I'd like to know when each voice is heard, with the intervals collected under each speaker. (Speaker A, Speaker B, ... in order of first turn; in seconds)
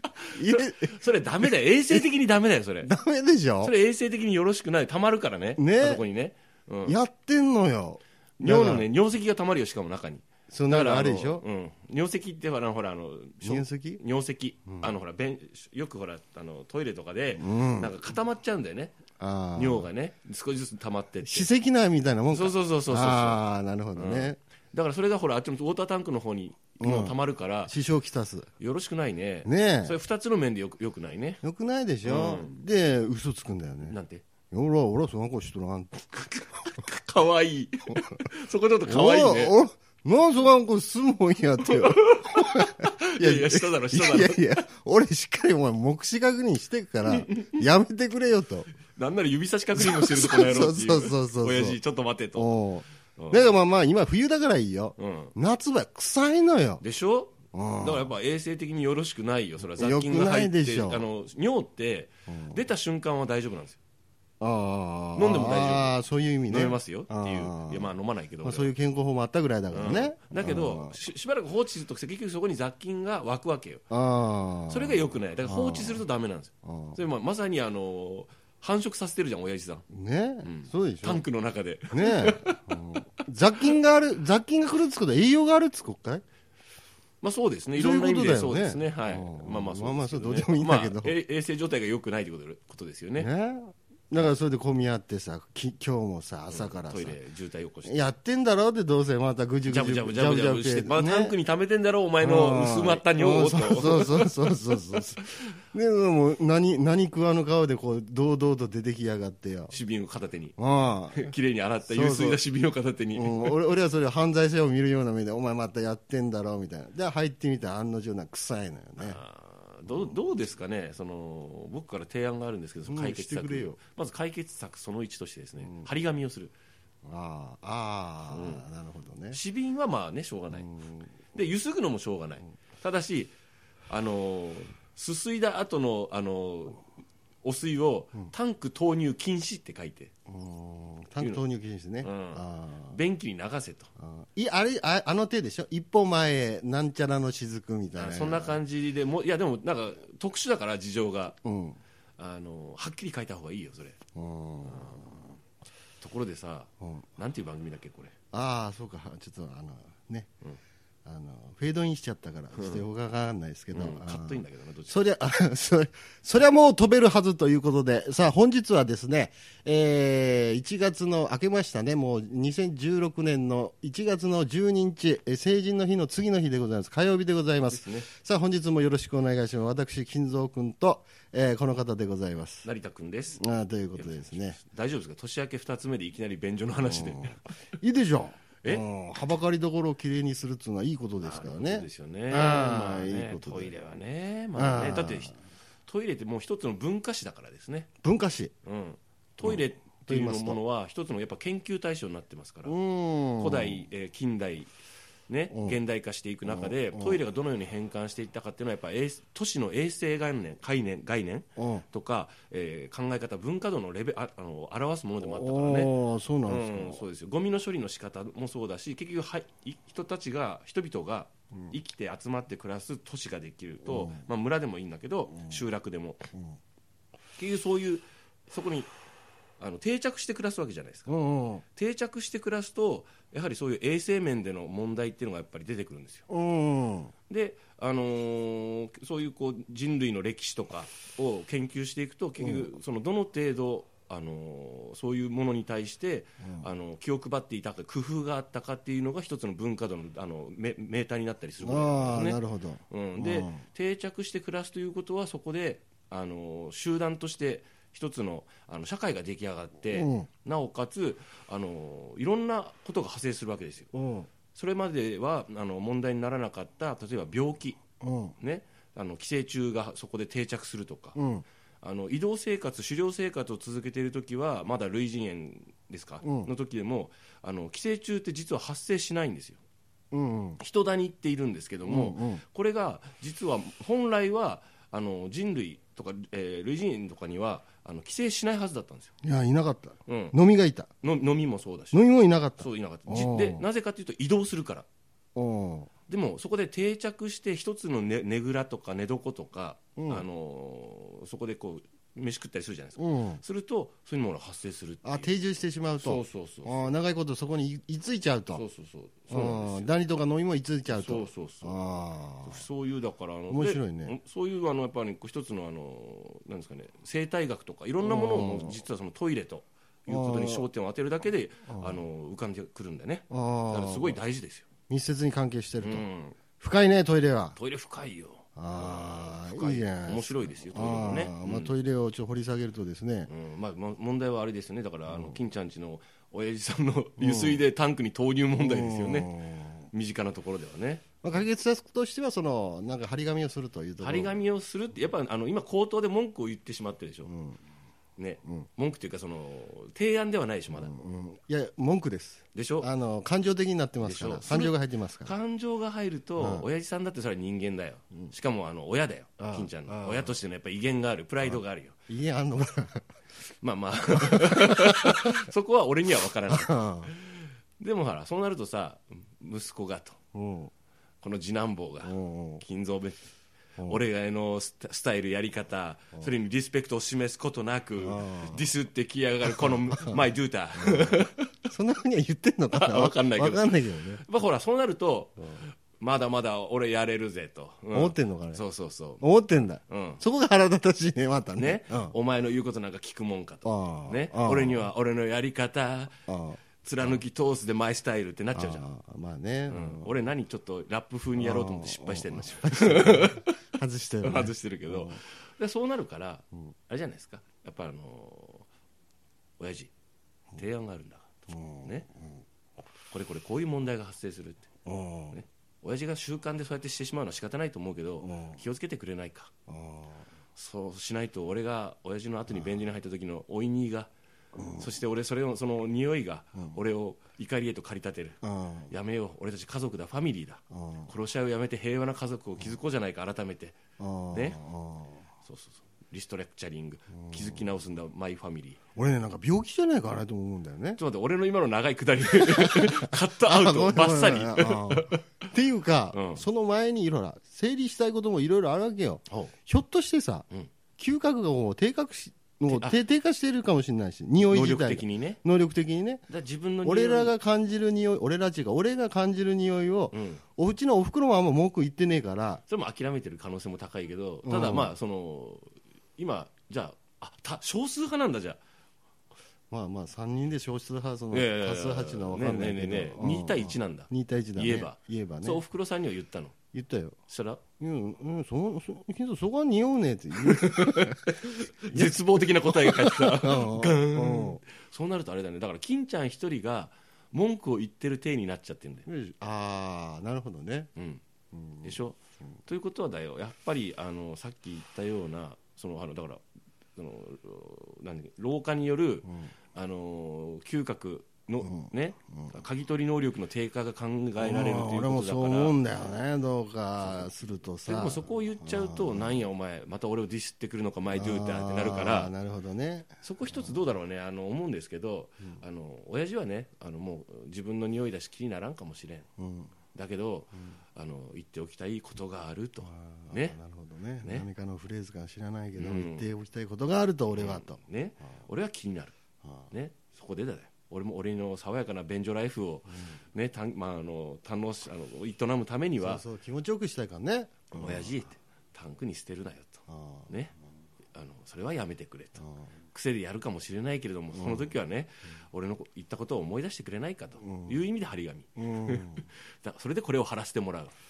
Speaker A: 0.2-2.9, 3.6-7.0, 8.4-18.9, 19.5-21.5, 22.3-23.4, 23.9-27.7, 28.6-31.4, 32.0-32.6, 33.9-34.2, 36.1-39.5, 41.6-44.6, 47.1-47.6, 48.9-52.5, 53.2-53.5, 55.0-55.3, 56.8-63.8, 65.1-68.7, 69.7-73.8, 74.7-79.8, 80.4-82.8, 87.2-93.3, 96.5-98.0, 99.7-105.2, 109.7-110.6, 111.1-113.6, 119.0-126.5, 128.3-128.6, 129.3-130.7, 131.3-133.3, 133.9-136.8, 137.4-140.1, 142.0-143.9, 147.9-151.3, 152.2-154.0, 154.7-155.2, 156.0-158.1, 162.6-162.8, 163.7-165.0, 177.6-178.1, 182.6-183.4, 183.9-187.4, 191.2-197.9, 198.6-202.8, 203.4-204.7, 205.3-226.3, 227.4-228.9, 229.6-231.1, 231.7-236.2, 237.3-263.9, 264.5-267.8, 268.4-271.2, 271.8-279.6, 280.6-289.1, 290.1-290.4, 291.0-292.0, 292.6-294.9, 296.1-305.3, 306.0-306.9, 308.5-309.9, 310.9-311.8, 312.4-324.7, 325.8-326.4, 327.6-331.8, 333.3-339.3, 339.9-341.1, 344.0-347.3, 348.2-350.9, 352.5-352.9, 354.0-361.9, 363.6-370.2, 371.2-373.2, 373.8-381.6, 382.7-390.2, 391.5-396.1, 396.8-398.9, 399.7-403.6, 404.2-408.7, 409.6-409.9, 410.5-412.1, 413.1-414.7, 415.3-419.5, 420.5-424.1, 424.8-433.8, 434.3-434.6, 435.4-438.8, 441.0-445.2, 446.1-446.4, 452.7-453.0, 454.4-455.4, 456.3-457.3, 460.1-460.4, 462.7-468.6, 471.3-476.5, 477.3-477.6, 480.4-489.1, 490.9-491.2, 491.8-496.4, 496.9-505.8, 507.0-507.3, 507.8-512.3, 513.2-519.3, 519.9-523.6, 524.2-524.5, 525.7-526.3, 527.3-529.1, 529.7-536.2, 537.7-540.5, 541.1-550.9
Speaker B: 0.3-2.0, 2.8-3.7, 5.6-6.0, 6.8-8.9, 10.5-11.4, 13.4-14.0, 14.7-14.9, 17.4-18.0, 19.2-19.9, 21.2-24.4, 26.8-28.5, 29.4-30.0, 31.4-34.0, 34.5-36.2, 38.8-48.7, 49.8-51.8, 52.3-56.8, 57.5-58.1, 59.6-61.0, 62.3-62.6, 64.4-71.0, 73.9-76.0, 76.6-77.0, 79.9-81.2, 81.9-86.2, 87.7-91.2, 93.2-97.2, 97.8-101.3, 102.2-109.7, 110.6-112.4, 113.1-119.2, 119.9-120.2, 122.9-123.8, 125.6-125.9, 127.0-129.4, 130.5-131.2, 140.3-143.0, 144.0-148.6, 151.4-151.8, 154.1-155.3, 156.8-157.1, 158.3-160.3, 161.0-182.7, 183.4-184.6, 186.8-193.8, 194.5-195.3, 198.0-198.5, 199.4-200.6, 202.6-203.9, 205.5-205.8, 206.4-207.2, 211.6-211.8, 215.2-217.0, 223.8-224.2, 225.3-225.6, 231.1-231.6, 236.3-237.1, 242.4-242.7, 246.4-246.7, 251.6-253.6, 259.8-260.3, 263.9-264.3, 268.0-268.4, 271.1-271.4, 276.2-276.5, 280.1-280.6, 281.9-282.4, 289.2-290.9, 291.9-293.6, 295.3-295.9, 299.9-300.2, 303.0-303.4, 305.0-308.6, 309.3-312.6, 313.5-314.1, 318.0-318.8, 320.1-320.7, 321.7-322.0, 323.3-324.2, 324.9-327.6, 328.6-333.3, 335.1-335.4, 337.2-337.6, 338.6-339.9, 341.2-344.4, 347.2-347.6, 350.7-355.4, 356.4-356.7, 359.4-360.4, 361.4-363.1, 364.2-365.4, 366.5-367.1, 370.3-370.7, 372.0-372.6, 373.8-374.0, 378.0-378.7, 379.4-384.2, 387.9-388.6, 389.2-392.1, 393.6-394.9, 396.3-397.2, 398.5-400.1, 401.4-405.2, 411.5-412.4, 414.8-415.4, 418.2-418.6, 419.7-420.3, 424.5-424.9, 428.4-428.9, 430.7-431.1, 434.0-435.2, 437.1-437.7, 438.9-441.0, 442.3-450.4, 451.0-456.3, 456.8-462.6, 464.4-464.9, 469.7-475.6, 476.7-477.1, 477.8-484.6, 489.1-490.9, 491.5-492.0, 499.2-499.5, 501.6-502.6, 504.4-509.4, 511.1-513.8, 519.4-519.7, 522.8-527.8, 529.4-529.7, 532.9-533.2, 536.0-538.2, 539.9-540.4, 542.4-542.7, 544.3-544.7, 547.5-547.8, 548.6-549.2